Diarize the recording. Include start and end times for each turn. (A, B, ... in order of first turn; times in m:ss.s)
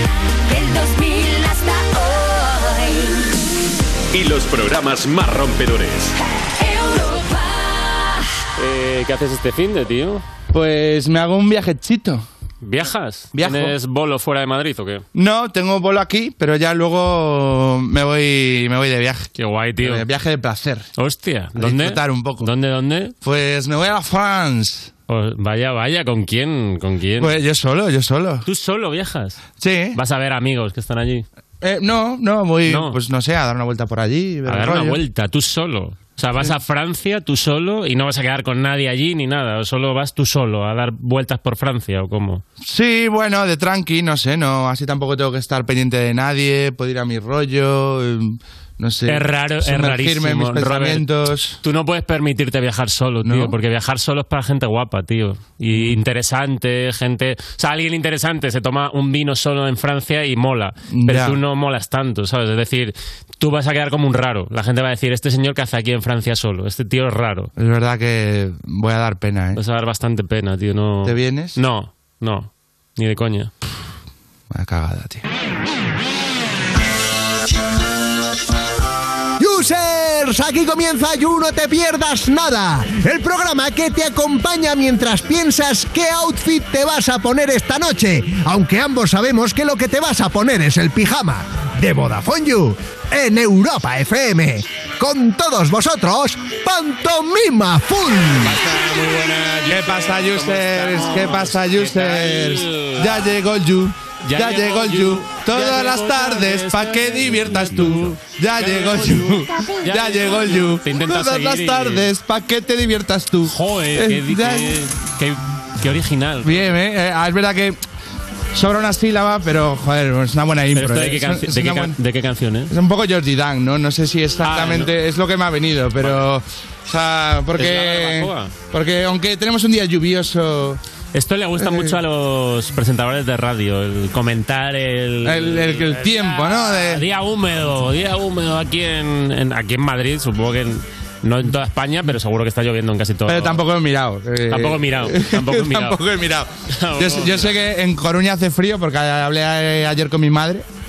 0:00.5-0:03.0 A
0:04.1-0:06.1 B
0:08.6-0:10.2 C
0:10.5-0:12.2 D
0:12.6-0:15.0 C
0:13.3-0:13.7 D
0:15.1-0:19.3 D
0:19.3-0:20.0 C
0:19.8-0:20.9 D
0:21.0-0:23.1 C
0:21.6-0:22.5 D
0:23.2-0:24.9 D
0:25.1-0:27.3 C
0:27.2-0:28.4 D
0:28.4-0:29.4 C
0:29.6-0:30.0 D
0:29.9-0:31.2 C
0:31.6-0:35.0 D
0:32.7-0:33.0 C
0:34.5-0:42.4 C
0:42.6-0:51.6 D
0:49.1-0:51.1 C
0:51.6-1:07.5 C
0:53.2-0:53.5 D
0:55.7-0:56.0 D
1:00.9-1:01.4 D
1:07.6-1:09.6 D
1:09.5-1:13.5 C
1:11.0-1:11.6 D
1:14.5-1:15.2 D
1:19.4-1:38.6 E
1:38.4-1:43.2 C
1:39.6-1:54.8 D
1:44.2-1:52.1 C
1:53.5-1:56.8 C
1:56.4-1:57.8 D
1:58.5-2:02.0 D
2:00.7-2:02.7 C
2:02.7-2:10.8 D
2:04.4-2:04.9 C
2:06.0-2:06.2 C
2:07.6-2:08.5 C
2:11.1-2:23.6 C
2:11.6-2:11.9 D
2:15.2-2:17.0 D
2:23.3-2:30.6 D
2:24.5-2:26.0 C
2:26.7-2:27.6 C